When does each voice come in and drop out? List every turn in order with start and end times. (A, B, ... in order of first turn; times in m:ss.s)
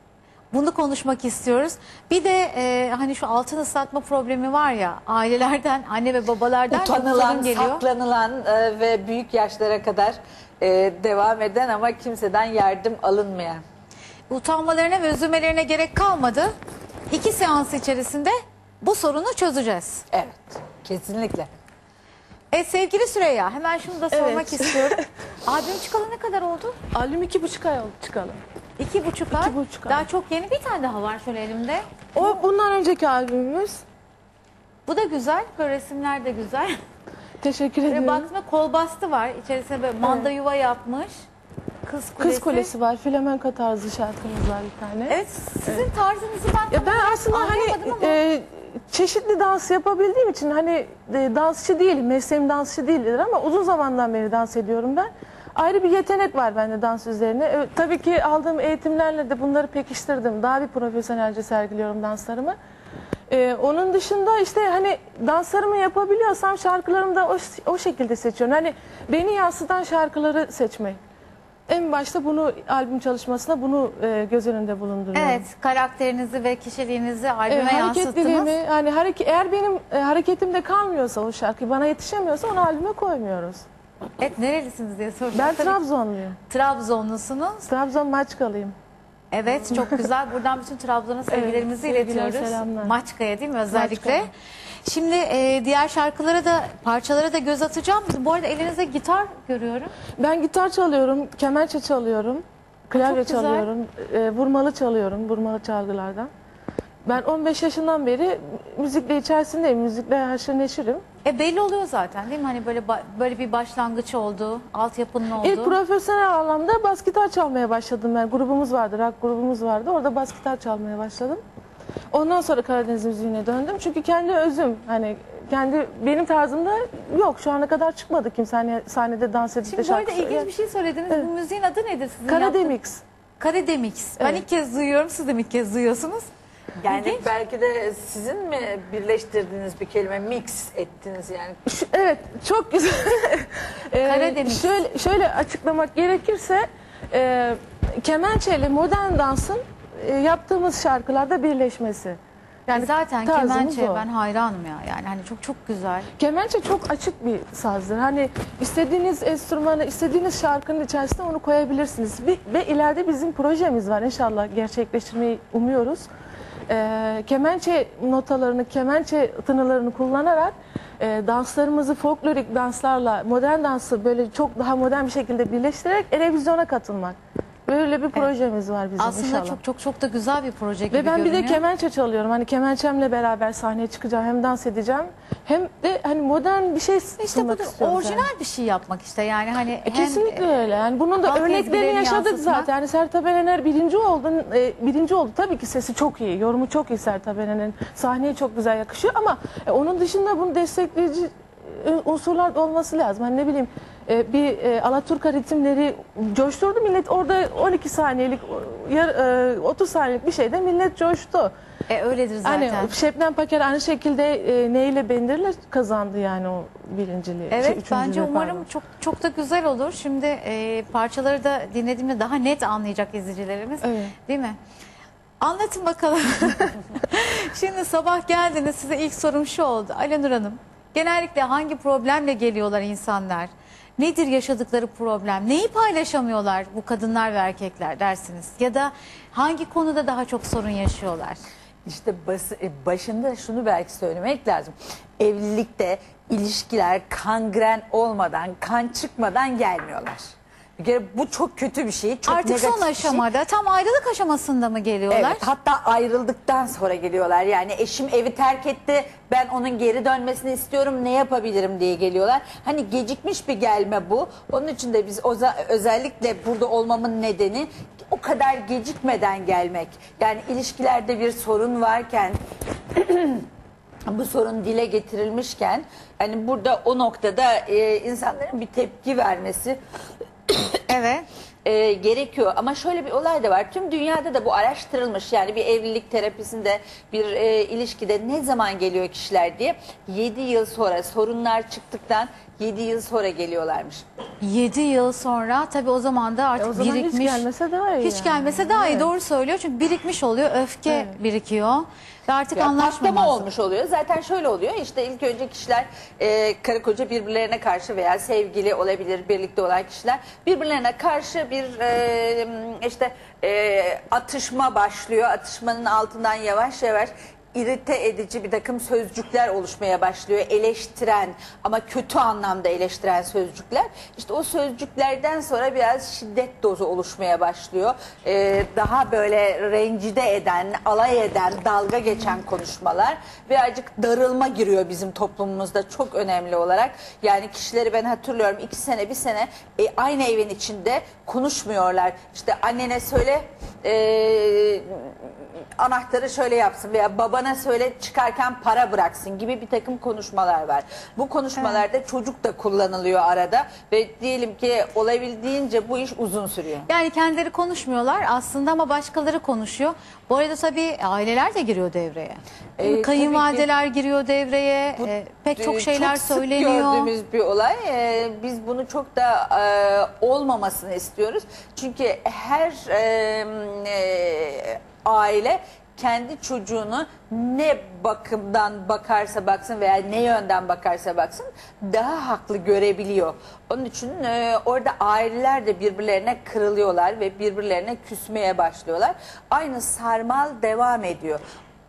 0:00.5-0:07.8 A
0:06.7-0:13.6 B
0:14.3-0:16.5 A
0:17.1-0:20.0 A
0:20.1-0:21.5 B
0:22.5-0:26.8 A
0:24.1-0:25.0 C
0:26.9-0:28.4 C
0:28.8-0:32.3 A
0:29.3-0:30.1 C
0:32.1-0:33.8 C
0:34.8-0:36.8 A
0:37.4-0:38.3 C
0:37.9-0:41.2 A
0:40.0-0:40.3 C
0:41.8-0:42.7 A
0:42.2-0:45.8 C
0:45.1-0:48.2 A
0:46.7-1:02.6 C
1:03.3-1:11.0 C
1:11.7-1:15.4 C
1:15.1-1:18.5 A
1:17.5-1:23.6 C
1:24.2-1:25.8 A
1:25.3-1:26.4 C
1:26.5-1:27.7 A
1:27.7-1:28.7 C
1:29.3-1:34.3 A
1:29.6-1:30.1 C
1:31.3-1:32.9 C
1:33.7-1:34.3 C
1:34.8-1:39.9 A
1:40.2-1:46.3 C
1:43.0-1:43.7 A
1:47.0-1:51.0 C
1:51.2-1:55.8 A
1:55.4-2:01.4 C
2:02.1-2:10.5 C
2:09.6-2:12.7 A
2:12.2-2:13.0 C
2:13.4-2:16.3 A
2:14.2-2:14.4 C
2:16.8-2:21.6 B
2:16.9-2:17.2 A
2:21.6-2:34.0 C
2:24.0-2:24.8 A
2:32.7-2:36.1 A
2:36.2-2:46.1 C
2:46.7-2:59.6 C
2:59.0-3:01.6 A
3:00.9-3:08.3 C
3:07.2-3:10.4 A
3:09.8-3:31.5 C
3:11.2-3:12.7 A
3:31.9-3:32.9 A
3:32.4-3:38.6 C
3:37.5-3:44.6 A
3:43.8-3:44.1 C
3:45.4-4:01.4 A
4:01.8-4:10.2 B
4:10.8-4:13.2 B
4:12.2-4:15.5 A
4:15.1-4:32.4 B
4:32.9-4:33.5 B
4:34.1-4:39.8 B
4:40.5-4:40.8 B
4:40.9-4:41.3 A
4:41.6-4:54.0 B
4:54.4-4:57.5 A
4:56.6-4:59.1 C
4:58.0-5:03.4 A
5:00.9-5:01.2 C
5:02.6-5:56.9 B
5:51.6-5:51.8 A
5:56.9-6:07.1 A
6:02.8-6:03.7 B
6:05.0-6:31.4 B